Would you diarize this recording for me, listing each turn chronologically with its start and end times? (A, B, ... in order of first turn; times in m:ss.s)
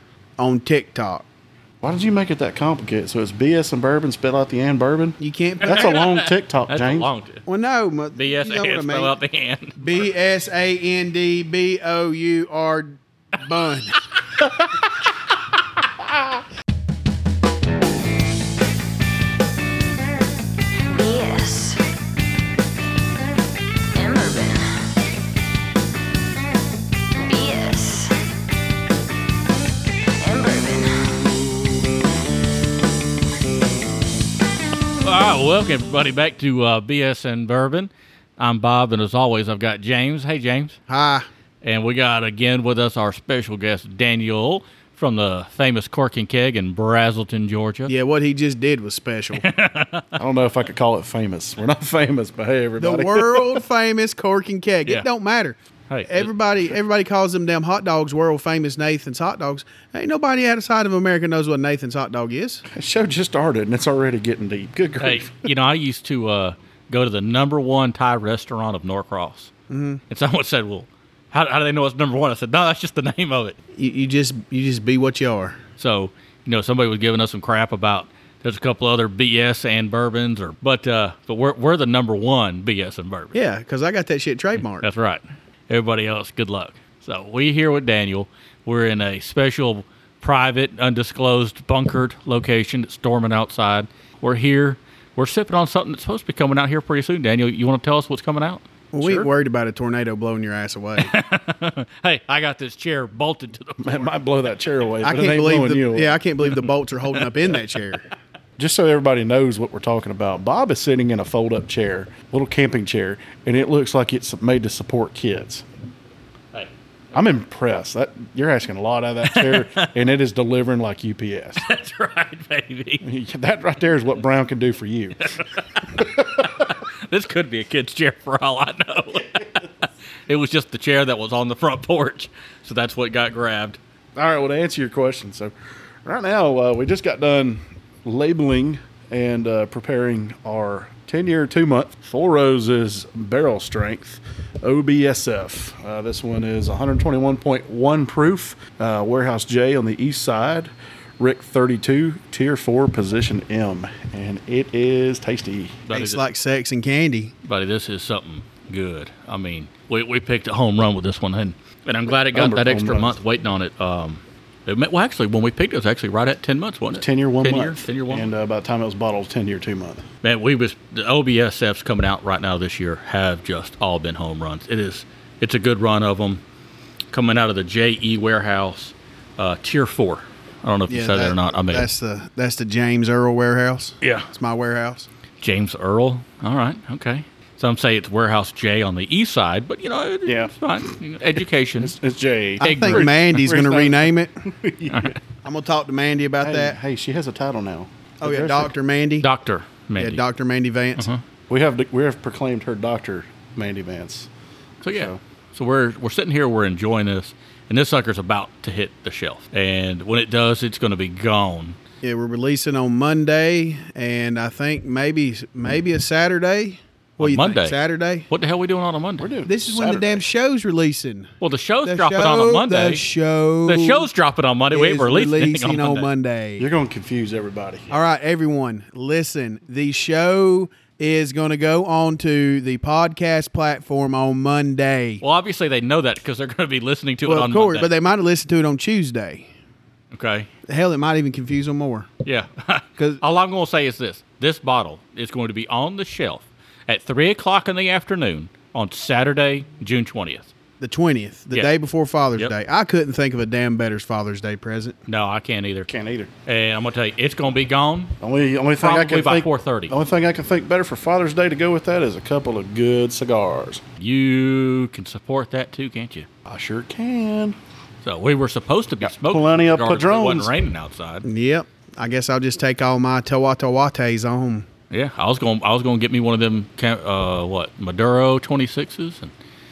0:00.4-0:01.3 A
0:01.8-0:07.1 B
0:05.2-0:06.1 A
0:05.6-0:07.4 C
0:07.5-0:09.2 A
0:08.1-0:10.0 C
0:09.8-0:14.0 A
0:13.9-0:15.2 C
0:20.9-0:21.8 D
0:23.9-0:24.8 D
0:27.2-0:28.2 D
0:30.2-0:31.1 D
0:35.0-0:40.8 C
0:40.9-0:41.3 A
0:41.6-0:47.9 C
0:47.9-0:49.5 A
0:49.4-0:50.1 C
0:50.2-0:53.6 B
0:52.8-0:55.6 A
0:55.9-0:56.3 C
0:56.1-1:02.6 A
1:02.7-1:05.5 B
1:05.0-1:09.5 C
1:09.7-1:10.0 A
1:10.1-1:13.6 C
1:13.8-1:15.6 A
1:15.8-1:23.4 C
1:23.3-1:24.9 A
1:24.6-1:38.6 C
1:38.9-1:41.1 A
1:39.0-1:39.3 B
1:41.0-1:44.1 C
1:43.8-1:46.2 B
1:45.0-1:48.1 A
1:46.5-1:47.3 C
1:48.6-1:55.6 B
1:57.1-2:01.6 B
1:59.2-2:00.0 C
2:01.6-2:03.1 C
2:03.0-2:05.3 B
2:05.2-2:13.8 C
2:06.0-2:06.5 B
2:14.2-2:15.5 B
2:16.0-2:35.8 B
2:35.9-2:36.3 C
2:35.9-2:37.3 A
2:37.4-2:48.3 C
2:42.3-2:43.2 B
2:46.9-2:50.0 B
2:50.2-2:56.4 C
2:57.1-3:01.9 C
3:00.9-3:05.1 A
3:05.4-3:12.0 C
3:10.3-3:10.5 B
3:11.8-3:15.2 B
3:12.6-3:13.3 C
3:12.6-3:14.3 A
3:14.9-3:15.2 C
3:15.4-3:16.8 A
3:16.4-3:18.7 B
3:18.2-3:19.3 A
3:19.2-3:20.2 C
3:20.0-3:21.1 A
3:21.0-3:21.2 C
3:21.5-3:24.3 B
3:24.8-3:31.8 C
3:24.8-3:25.2 B
3:32.0-3:38.3 A
3:37.2-3:37.8 C
3:38.3-3:39.3 C
3:39.2-3:40.2 B
3:39.4-3:41.3 A
3:41.4-3:43.0 C
3:41.8-3:44.1 A
3:43.7-3:46.1 C
3:44.7-3:46.7 A
3:46.6-3:47.9 B
3:47.9-3:55.2 A
3:55.2-3:57.9 C
3:57.2-3:59.5 A
4:00.1-4:00.5 C
4:00.7-4:02.1 A
4:02.2-4:10.5 C
4:10.8-4:15.0 A
4:15.1-4:15.9 C
4:15.9-4:16.3 B
4:16.5-4:18.2 C
4:18.2-4:23.8 B
4:18.8-4:19.9 C
4:24.0-4:26.3 C
4:26.5-4:27.6 B
4:28.0-4:31.3 C
4:29.0-4:30.5 B
4:31.2-4:34.7 A
4:34.9-4:39.3 C